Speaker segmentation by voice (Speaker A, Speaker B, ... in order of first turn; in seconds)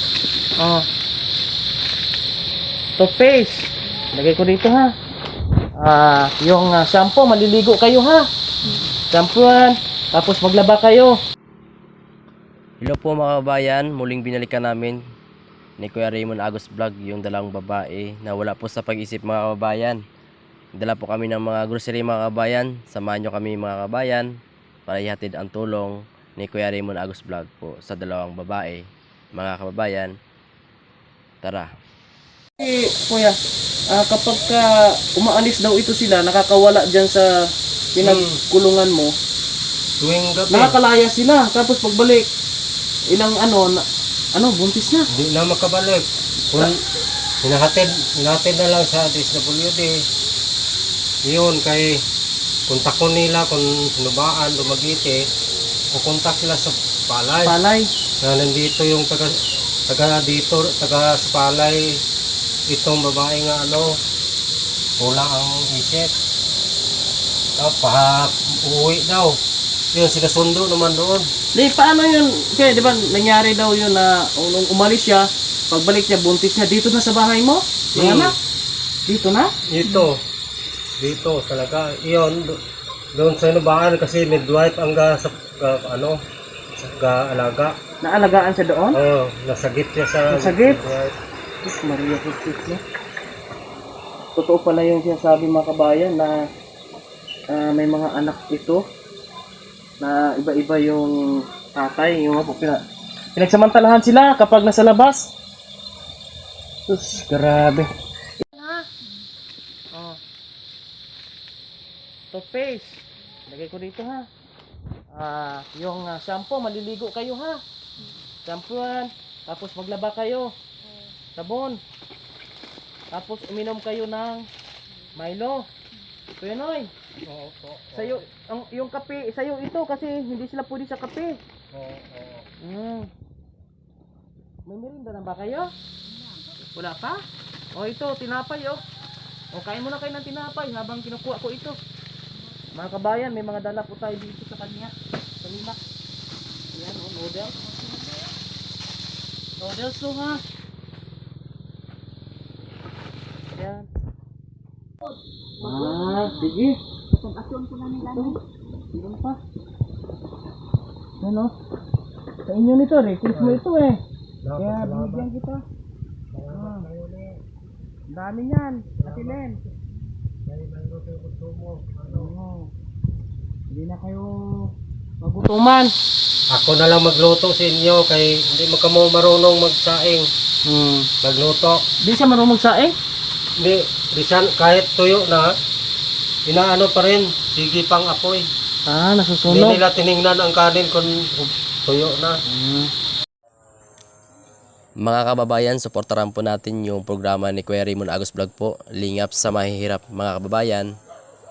Speaker A: 0.6-0.8, 3.0-4.9, 5.8-8.2, 9.1-11.1, 32.6-33.3, 33.9-37.2, 38.0-39.1, 40.5-42.2, 43.1-43.8, 44.4-45.0, 57.4-57.9, 71.5-78.3, 79.0-79.5, 88.0-89.0, 90.3-90.8, 91.6-92.8, 94.3-96.4, 97.5-98.8, 100.0-101.1, 101.7-102.8, 103.3-105.3, 106.9-107.9, 108.4-108.9, 109.9-110.2, 112.3-114.2, 115.1-117.6, 118.4-120.5, 121.3-121.8, 123.1-124.5, 125.1-125.7, 126.4-126.9, 127.9-131.4, 132.6-133.1, 134.7-135.7, 136.7-137.2, 137.7-138.8, 139.5-141.8, 142.7-145.8, 146.7-147.7, 149.6-150.4, 153.6-153.9, 155.6-158.4, 158.9-159.4, 161.2-161.5, 162.5-164.0, 164.6-165.6, 166.5-166.8, 168.1-169.6, 172.1-172.7, 173.7-174.3, 175.2-175.9, 180.7-181.1, 182.0-182.9, 188.9-189.8, 192.5-192.9
Speaker B: 12.8-15.0, 15.8-20.0, 20.8-24.3, 24.9-28.8, 29.4-30.1, 31.4-31.7, 195.0-200.9
Speaker C: 38.0-38.4, 40.0-40.8, 45.2-46.7, 47.4-49.9, 51.2-52.0, 52.7-55.2, 55.9-57.5, 58.2-59.3, 59.9-61.8, 62.7-63.9, 65.0-66.1, 67.6-69.4, 69.9-71.3, 77.9-78.3, 79.7-80.2, 81.0-82.6, 83.1-86.2, 86.8-87.8, 88.9-91.1, 127.2-128.2, 131.7-132.4, 163.2-163.6, 164.4-165.3, 166.3-167.3, 168.9-169.4, 170.4-172.3, 176.5-180.3, 181.2-181.8, 183.6-185.5, 186.4-188.4, 189.5-192.4